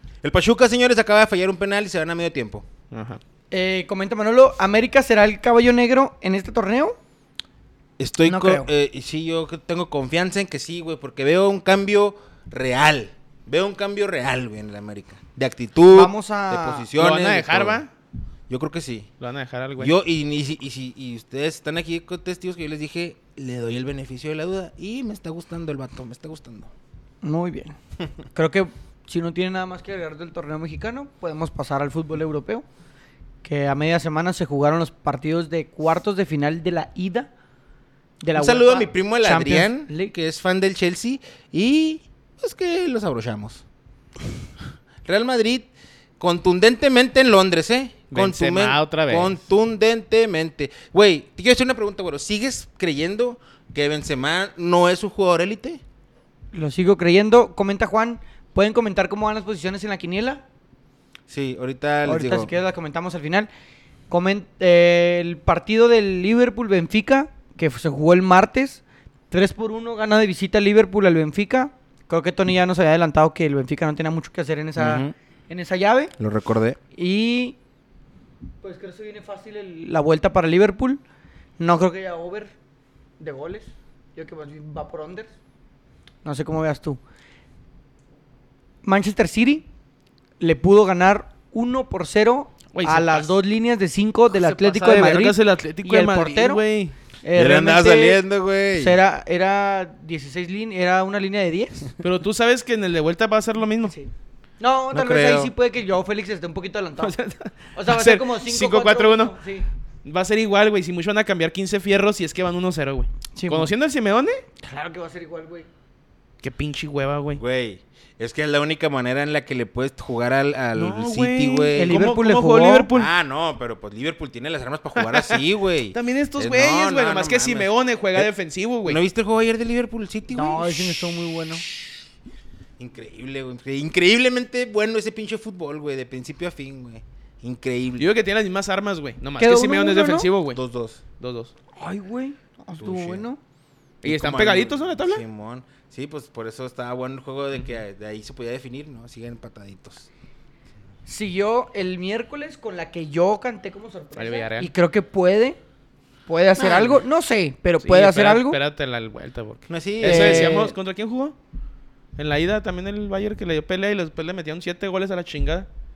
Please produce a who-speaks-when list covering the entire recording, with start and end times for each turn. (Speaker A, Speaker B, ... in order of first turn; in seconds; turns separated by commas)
Speaker A: 0.2-2.6, Speaker B: 2.9-3.2, Speaker C: 3.5-7.0, Speaker A: 8.0-17.8, Speaker C: 8.2-8.7, Speaker C: 15.9-16.9, Speaker B: 16.9-17.9, Speaker A: 18.5-19.1, Speaker B: 19.2-19.9, Speaker A: 19.8-26.7, Speaker C: 27.2-27.8, Speaker C: 28.3-32.6, Speaker C: 33.4-37.3, Speaker C: 38.2-40.1, Speaker A: 38.3-43.6, Speaker A: 45.0-55.8, Speaker B: 48.1-49.4, Speaker C: 56.5-60.4, Speaker A: 61.3-62.5, Speaker C: 62.0-63.5, Speaker C: 64.1-76.1, Speaker A: 74.8-75.1, Speaker A: 76.2-76.8, Speaker C: 76.9-77.6, Speaker C: 78.6-81.0, Speaker C: 81.6-82.5, Speaker C: 83.2-85.3, Speaker C: 86.2-87.0, Speaker C: 88.8-89.7, Speaker C: 90.4-96.6, Speaker B: 92.7-93.3, Speaker B: 94.3-96.9, Speaker C: 97.2-98.2, Speaker A: 97.3-99.0, Speaker C: 98.7-101.9, Speaker B: 102.0-103.9, Speaker C: 103.9-107.1, Speaker A: 104.9-105.5, Speaker B: 107.0-109.3, Speaker C: 107.7-109.7, Speaker B: 110.0-114.4, Speaker C: 113.3-113.7, Speaker C: 114.6-115.7, Speaker B: 116.4-117.4, Speaker A: 117.3-122.0, Speaker B: 120.7-123.1, Speaker C: 121.7-122.9, Speaker A: 122.9-128.3, Speaker B: 125.0-129.0, Speaker A: 128.8-131.0, Speaker C: 130.3-131.6, Speaker A: 132.8-138.1, Speaker B: 138.0-140.6, Speaker C: 139.4-140.3, Speaker A: 140.5-141.0, Speaker B: 141.1-141.5, Speaker C: 141.7-143.4, Speaker A: 142.8-143.2, Speaker B: 144.0-145.2, Speaker A: 144.0-150.1, Speaker C: 151.1-155.6, Speaker B: 154.2-154.7, Speaker C: 156.3-158.6, Speaker B: 157.8-161.3, Speaker A: 159.7-160.6, Speaker C: 160.0-160.7, Speaker B: 162.2-165.7